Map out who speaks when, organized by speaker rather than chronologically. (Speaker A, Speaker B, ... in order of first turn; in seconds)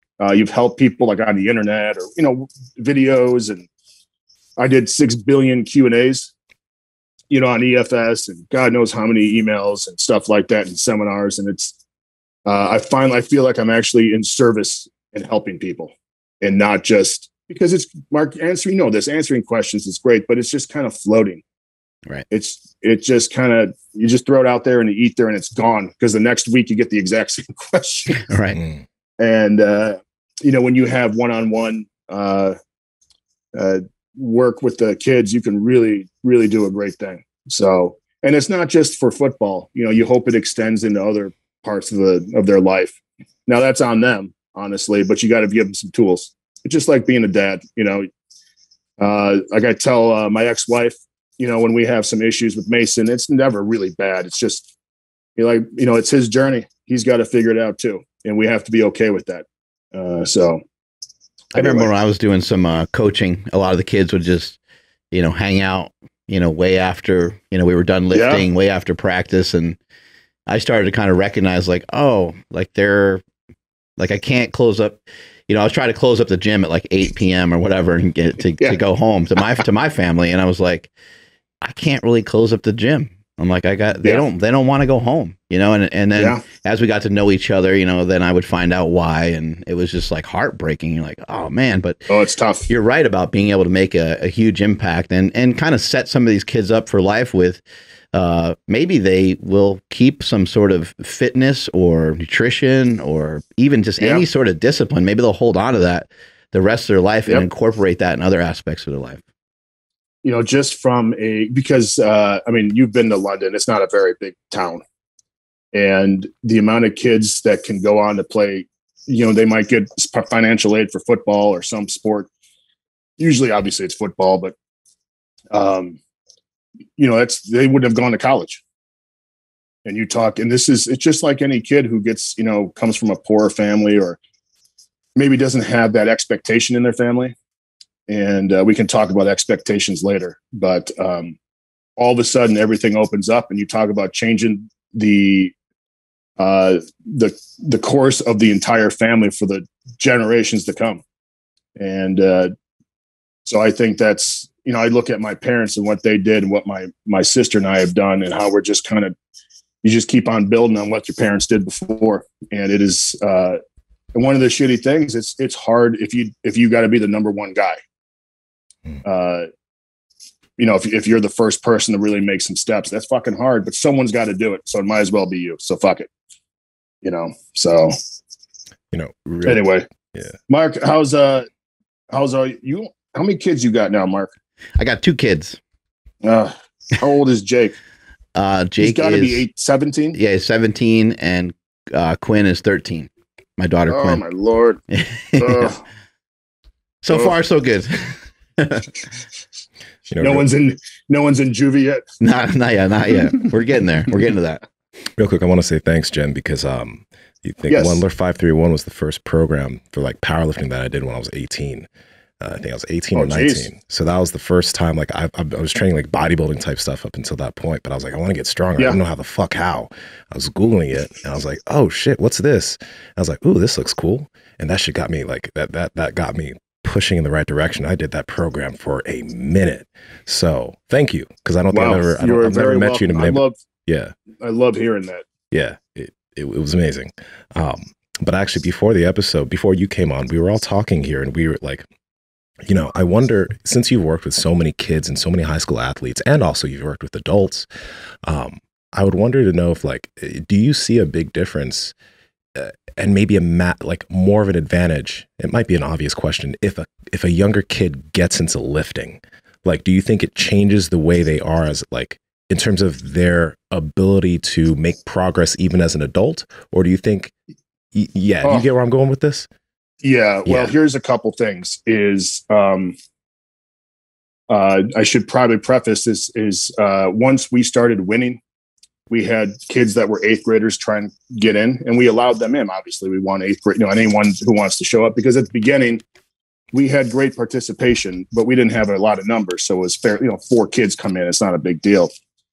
Speaker A: 0.2-3.7, 4.6-6.3, 7.3-11.7, 12.4-21.4, 22.3-28.3, 29.2-32.6, 33.5-48.1, 49.0-54.7, 55.4-60.6, 61.5-61.9, 68.1-68.5, 86.2-86.4, 92.1-92.7, 104.0-104.3, 110.2-114.8, 115.7-122.3, 123.2-124.5, 125.5-126.0, 127.0-128.6, 129.8-134.2, 135.2-137.3, 138.1-141.4, 142.0-145.5, 146.4-151.0, 151.8-152.5, 153.4-159.1, 159.8-163.6, 164.1-167.8, 169.1-169.5, 170.6-176.1, 177.0-178.0, 179.4-179.9, 180.5-181.5, 182.1-184.3, 186.2-187.8, 188.8-190.2, 193.9-194.8, 195.4-195.8, 200.2-202.0, 207.7-208.0, 213.1-213.7, 231.7-233.6, 234.4-235.2, 270.0-273.0, 274.5-278.4, 279.1-286.0, 286.7-292.1
Speaker B: 28.2-28.6, 61.6-64.6, 65.1-69.8, 70.5-73.2, 74.0-80.9, 81.6-92.1, 92.7-109.2, 184.8-185.6, 188.3-189.5, 190.1-194.2, 194.9-195.7, 197.0-198.9, 202.2-204.6
Speaker C: 178.9-180.4, 200.1-200.5, 205.2-211.9, 212.4-234.1, 235.5-241.8, 242.7-247.7, 248.2-251.9, 252.6-267.3, 267.9-269.5, 270.5-270.7